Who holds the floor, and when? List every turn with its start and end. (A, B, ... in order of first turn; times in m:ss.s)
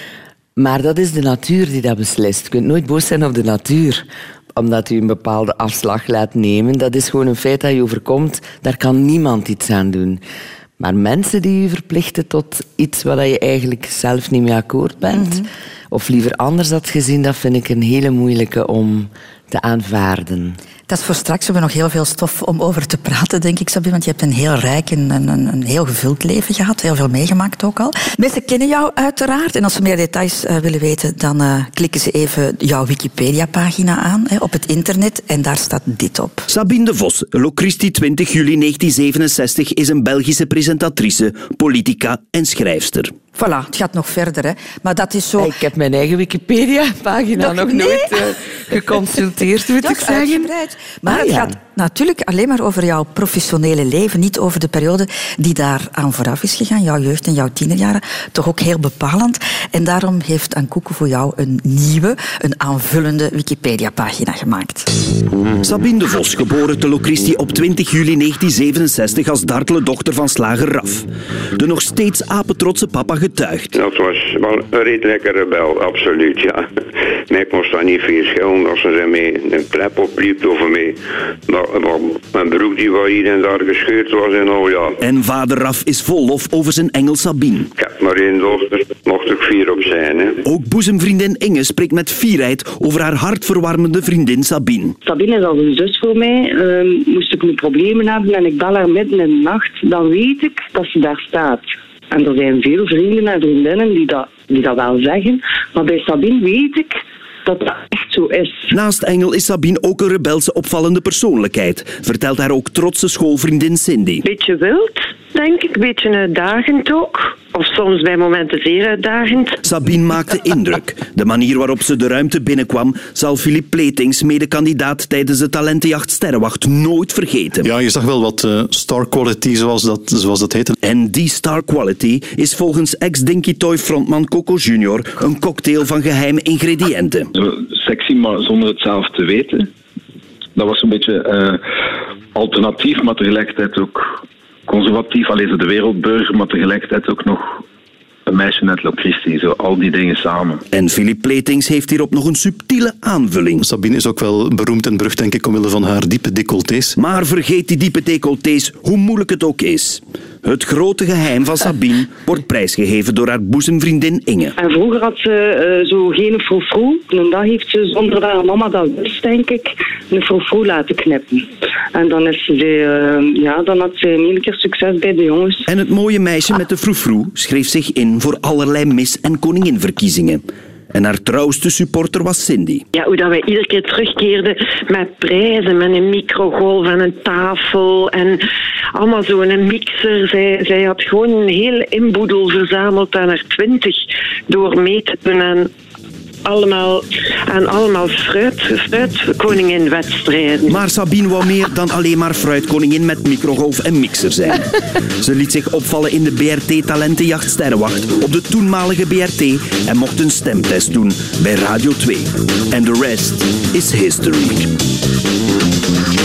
0:00.6-0:10.2 A
0:10.8-0:20.6 A
0:15.1-0:15.5 B
0:20.9-0:36.5 B
0:36.5-0:43.1 C
0:43.4-0:45.5 B
0:45.4-0:50.5 A
0:47.4-0:48.2 B
0:49.8-1:04.9 B
0:51.0-0:51.5 A
1:05.6-1:13.7 C
1:13.7-1:16.7 D
1:17.3-1:25.0 D
1:25.0-1:27.7 C
1:27.8-1:30.4 D
1:30.4-1:35.0 C
1:35.0-1:48.7 E
1:48.7-1:54.2 C
1:54.2-1:59.6 F
1:59.6-2:07.7 C
2:07.6-2:10.8 G
2:10.8-2:17.3 C
2:17.4-2:19.7 H
2:20.6-2:21.6 H
2:22.3-2:27.6 H
2:28.3-2:30.6 H
2:30.7-2:33.6 C
2:33.6-2:36.9 G
2:37.0-2:44.5 C
2:44.6-2:55.6 E
2:55.7-3:02.8 C
3:02.9-3:08.4 F
3:08.9-3:15.7 F
3:16.4-3:20.8 F
3:20.7-3:34.7 C